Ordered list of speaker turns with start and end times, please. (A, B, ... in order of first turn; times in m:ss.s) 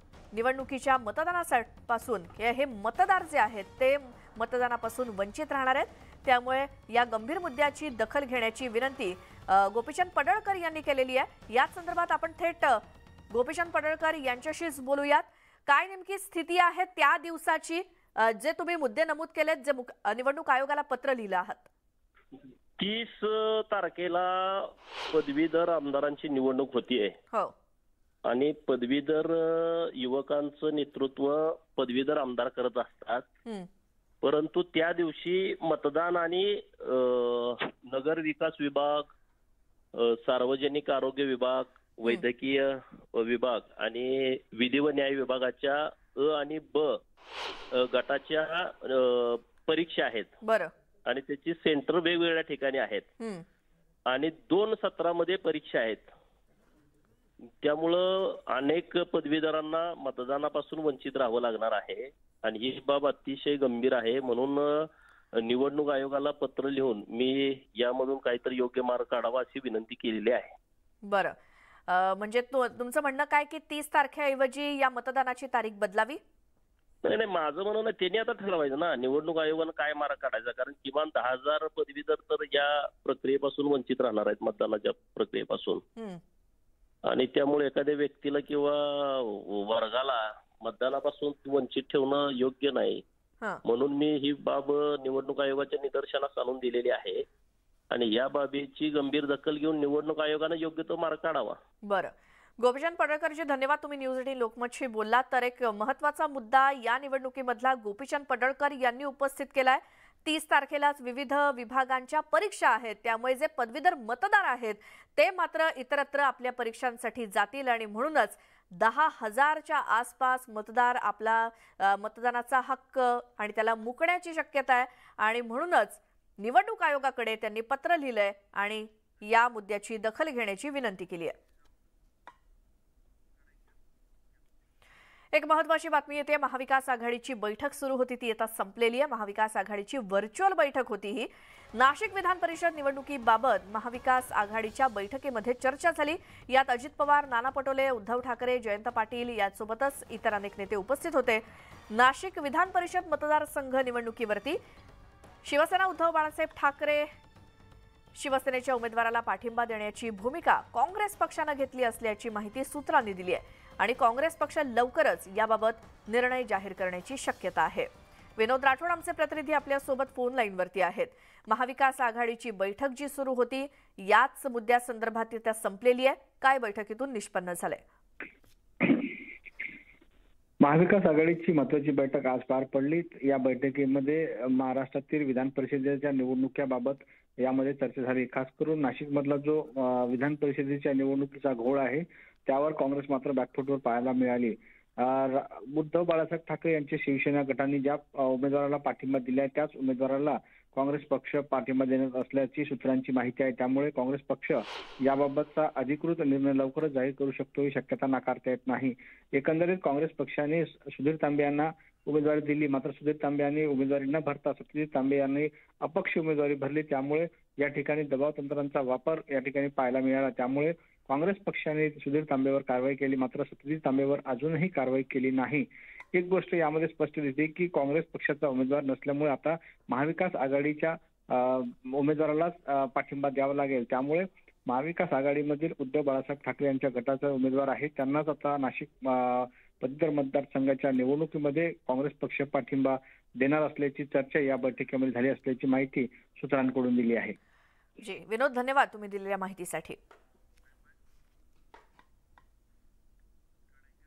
0:00.3-0:21.7 A
0:22.8-0:27.2 B
0:28.2-0:33.3 B
0:34.2-0:39.1 B
0:39.9-0:47.0 B
0:47.7-0:50.4 B
0:50.4-0:50.7 A
0:51.0-0:53.1 B
0:53.2-0:53.4 A
0:54.1-0:56.1 B
0:57.6-1:10.5 B
1:11.0-1:11.4 A
1:11.9-1:16.2 A
1:17.0-1:25.8 B
1:27.0-1:33.0 B
1:33.6-1:37.2 B
1:37.9-1:41.6 B
1:41.8-2:11.4 A
2:15.3-2:34.6 A
2:35.4-2:37.1 A
2:38.1-2:57.8 A
3:00.6-4:07.4 C
4:08.0-4:10.0 A